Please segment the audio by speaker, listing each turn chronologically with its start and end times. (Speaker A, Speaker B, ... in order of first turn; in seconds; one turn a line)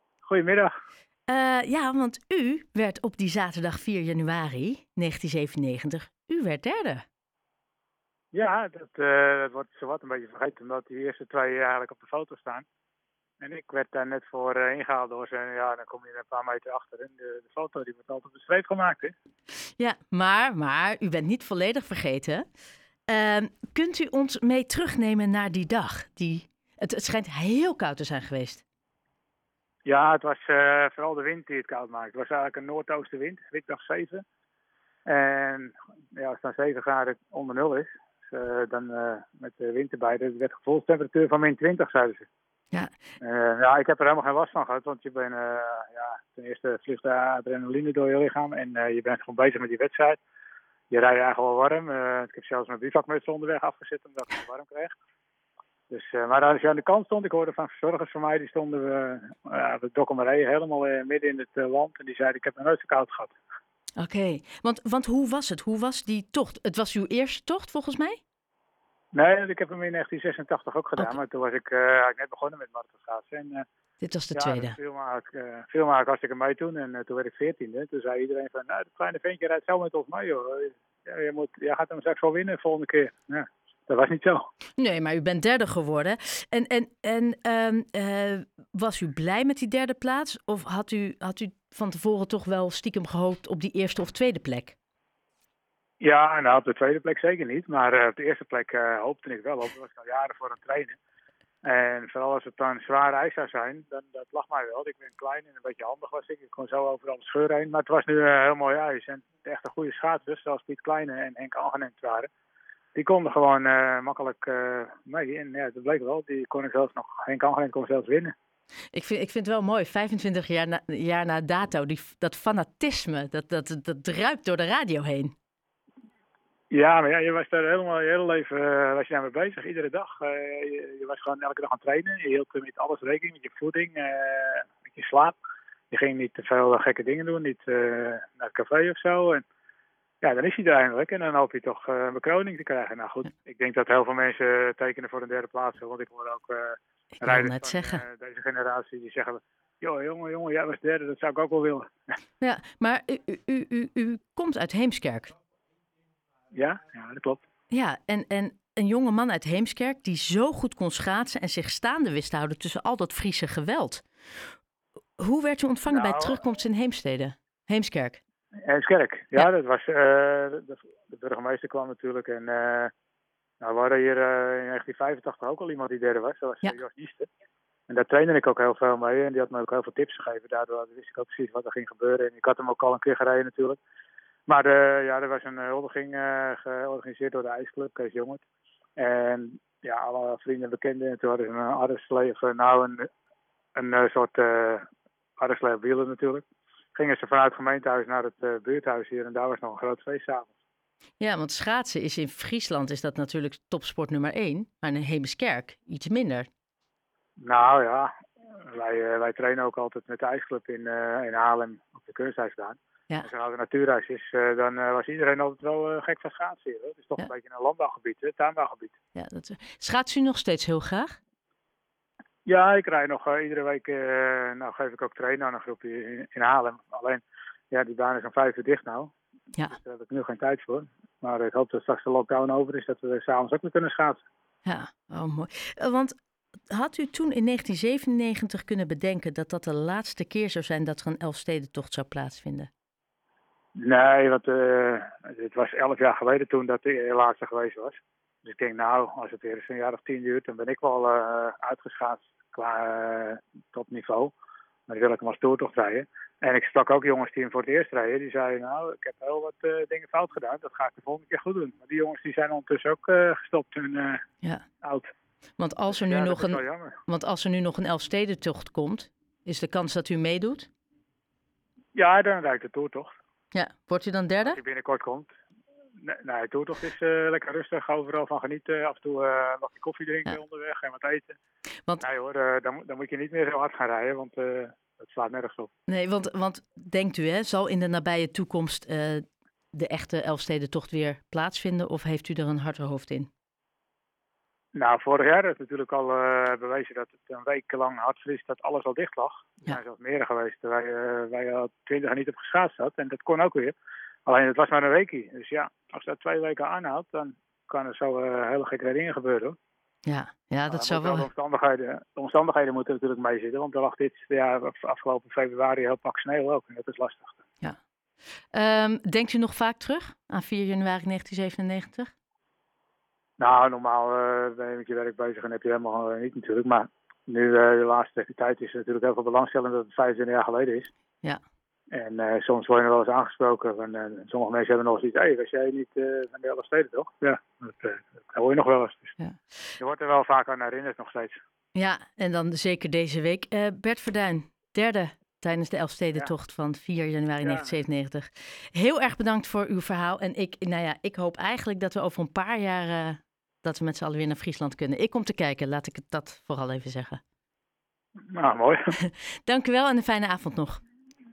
Speaker A: 0.2-0.7
Speaker B: 1.3-7.0
Speaker A: 8.3-12.7
Speaker A: 13.4-19.1
Speaker B: 19.8-22.5
Speaker B: 23.1-28.6
Speaker A: 29.9-34.2
Speaker A: 35.0-42.3
Speaker A: 43.2-50.2
Speaker A: 50.9-55.0
Speaker A: 55.9-63.4
Speaker B: 64.0-68.2
Speaker A: 69.1-73.7
Speaker B: 74.0-74.8
Speaker A: 74.3-84.5
Speaker B: 84.8-94.8
Speaker A: 96.0-101.0
Speaker A: 101.6-112.3
Speaker A: 113.0-118.3
Speaker B: 118.9-125.3
Speaker A: 126.7-135.4
Speaker A: 135.9-139.4
Speaker A: 140.2-151.9
Speaker B: 147.2-148.0
Speaker B: 152.4-155.3
Speaker A: 156.5-157.4
Speaker B: 157.7-164.5
Speaker B: 165.2-168.2
Speaker A: 165.9-166.4
Speaker A: 168.7-172.9
Speaker A: 173.6-177.3
Speaker A: 177.9-183.8
Speaker A: 184.5-188.4
Speaker A: 189.0-193.1
Speaker A: 193.8-194.9
Speaker A: 195.4-200.5
Speaker B: 201.2-206.5
Speaker A: 207.4-218.9
Speaker B: 219.2-221.2
Speaker A: 222.4-229.1
Speaker A: 229.7-234.2
Speaker B: 234.7-236.2
Speaker B: 236.7-242.7
Speaker A: 243.8-254.3
Speaker A: 254.9-264.2
Speaker A: 264.8-265.1
Speaker B: 265.6-270.7
Speaker A: 265.9-267.0
Speaker A: 271.9-273.1
Speaker B: 273.5-274.6
Speaker A: 274.4-275.3
Speaker A: 276.0-281.4
Speaker A: 282.0-285.7
Speaker B: 285.9-293.3
Speaker A: 294.8-303.8
Speaker A: 304.3-309.6
Speaker B: 310.1-311.3
Speaker A: 310.7-317.4
Speaker B: 318.5-322.1
Speaker A: 323.4-330.9
Speaker A: 331.9-339.1
Speaker A: 339.8-341.4
Speaker B: 341.8-357.2
Speaker A: 347.4-347.8
Speaker A: 358.3-358.8
Speaker B: 359.0-360.8